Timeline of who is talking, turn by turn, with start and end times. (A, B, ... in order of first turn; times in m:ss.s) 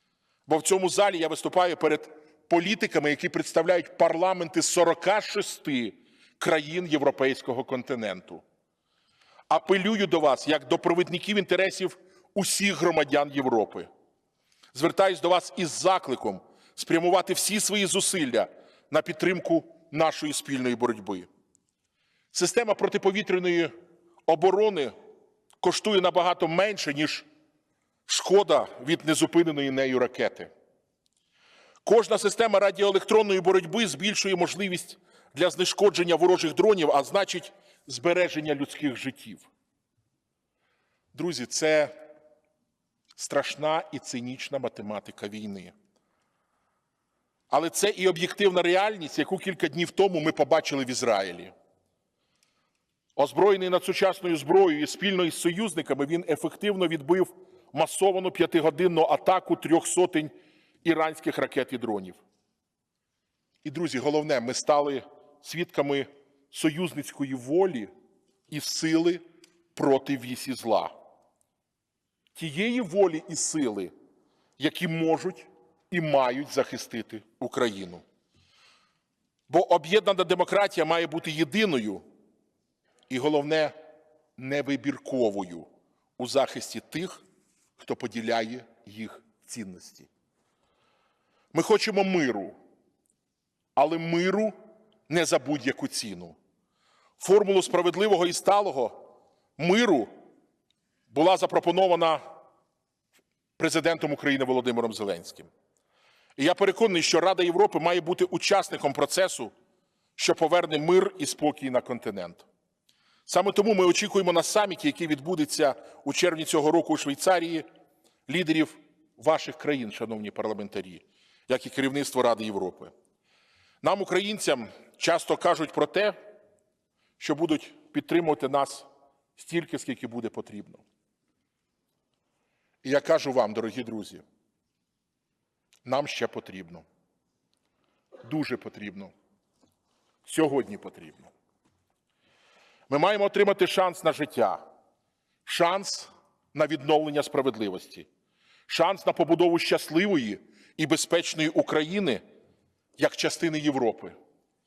0:00.5-0:08.4 A
0:09.5-0:13.9 A
0:14.7-0:21.3 A
0:22.3-0:23.7 A
0:24.3-0:24.9 A
0:25.6-0:27.3 A
0:28.1-0:30.5 A
0:31.8-0:39.5 A
0:41.1-0:41.9 A
0:43.2-0:45.7 A
0:47.5-0:51.5 A
0:53.2-1:00.3 A
1:00.8-1:02.2 A
1:03.6-1:07.9 A
1:08.5-1:09.2 A
1:09.8-1:10.9 A
1:12.4-1:13.9 A
1:14.6-1:18.0 A
1:19.5-1:22.0 A
1:23.1-1:23.8 A
1:24.4-1:25.7 A
1:26.2-1:27.2 A
1:27.8-1:30.1 A
1:31.5-1:32.6 A
1:33.8-1:34.6 A
1:35.1-1:36.4 A
1:37.2-1:39.0 A
1:39.6-1:40.1 A
1:41.1-1:42.2 A
1:43.6-1:45.5 A
1:46.4-1:49.5 A
1:50.2-1:52.4 A
1:53.3-1:57.7 A
1:58.3-2:02.9 A
2:03.8-2:06.2 A
2:07.2-2:10.8 A
2:12.8-2:14.2 A
2:15.8-2:16.8 A
2:18.2-2:19.1 A
2:20.2-2:21.3 A
2:22.9-2:24.6 A
2:25.4-2:28.1 A
2:28.7-2:32.2 A
2:33.0-2:34.2 A